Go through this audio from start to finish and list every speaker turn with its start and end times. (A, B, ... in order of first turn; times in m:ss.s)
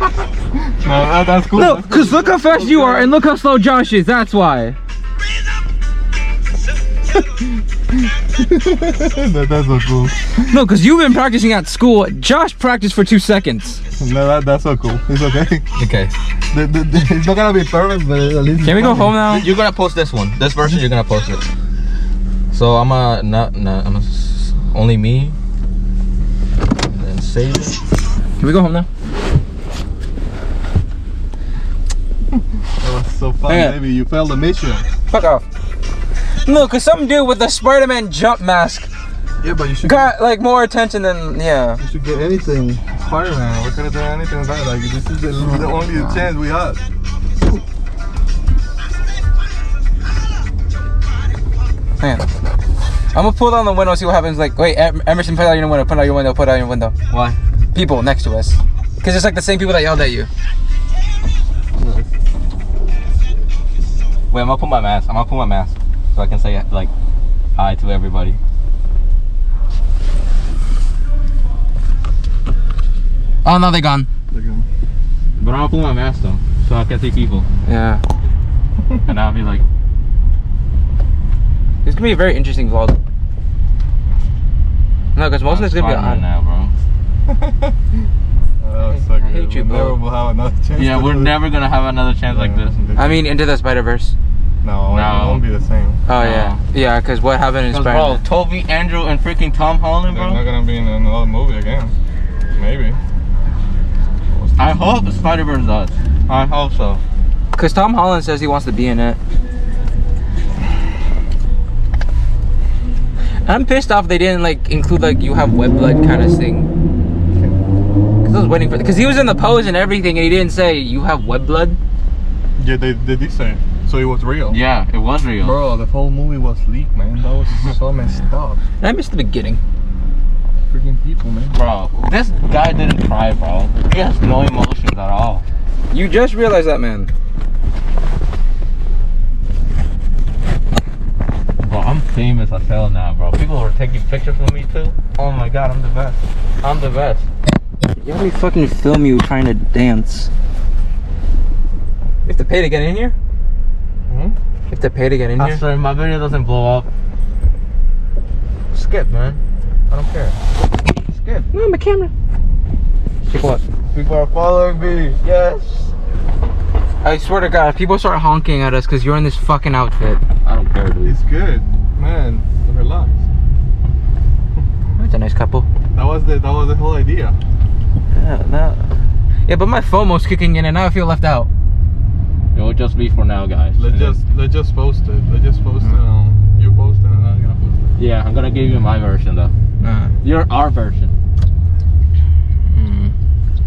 0:00.8-0:03.1 A
0:01.6-0:04.8 B
0:08.3-0:10.6 A
0:10.5-0:13.8 B
0:14.0-0:15.6 A
0:15.8-0:16.1 C
0:16.5-0:19.3 A
0:18.6-0:19.5 B
0:19.3-0:21.4 C
0:22.5-0:25.4 C
0:26.9-0:27.8 C
0:28.4-0:28.9 B
0:32.8-0:34.9 A
0:33.5-0:33.8 B
0:35.1-0:35.4 B
0:36.4-0:38.9 B
0:39.4-0:40.1 A
0:39.8-0:41.8 B
0:41.8-0:46.8 A
0:52.0-0:52.3 B
0:53.1-0:57.0 B
0:57.1-0:57.4 C
0:57.7-1:00.3 B
1:01.8-1:02.1 C
1:04.3-1:06.9 C
1:07.6-1:08.4 C
1:13.4-1:14.1 B
1:14.3-1:14.7 A
1:15.4-1:17.5 C
1:17.7-1:18.0 B
1:19.1-1:19.6 C
1:21.8-1:23.0 B
1:25.2-1:26.2 B
1:25.5-1:26.7 C
1:27.3-1:27.7 A
1:28.6-1:31.4 A
1:28.9-1:30.0 B
1:30.8-1:32.8 C
1:32.3-1:33.2 A
1:33.0-1:34.1 B
1:34.6-1:36.0 A
1:34.9-1:35.4 C
1:36.1-1:38.2 B
1:36.2-1:36.6 C
1:37.7-1:40.4 C
1:40.1-1:41.9 A
1:42.6-1:43.0 A
1:44.6-1:47.0 C
1:47.5-1:49.2 B
1:53.5-1:56.7 B
1:57.4-1:57.6 A
1:58.2-2:01.8 B
2:02.6-2:04.6 A
2:04.5-2:05.6 C
2:05.4-2:08.6 A
2:08.8-2:09.6 B
2:10.7-2:11.6 A
2:11.5-2:15.4 C
2:15.9-2:17.1 B
2:21.6-2:27.2 C
2:28.0-2:30.3 B
2:32.2-2:33.2 B
2:34.1-2:34.4 A
2:34.7-2:35.6 B
2:35.4-2:36.9 C
2:38.7-2:40.4 C
2:41.1-2:41.5 C
2:41.5-2:42.1 B
2:43.3-2:43.6 B
2:43.9-2:45.9 C
2:47.0-2:50.2 B
2:50.4-2:51.2 C
2:51.0-2:53.2 A
2:55.0-2:55.7 B
2:55.9-2:57.4 A
2:58.1-2:58.9 B
2:59.5-3:01.5 B
3:02.6-3:04.2 C
3:03.8-3:08.0 A
3:08.0-3:09.5 C
3:09.8-3:10.2 B
3:10.2-3:11.1 C
3:12.7-3:13.1 B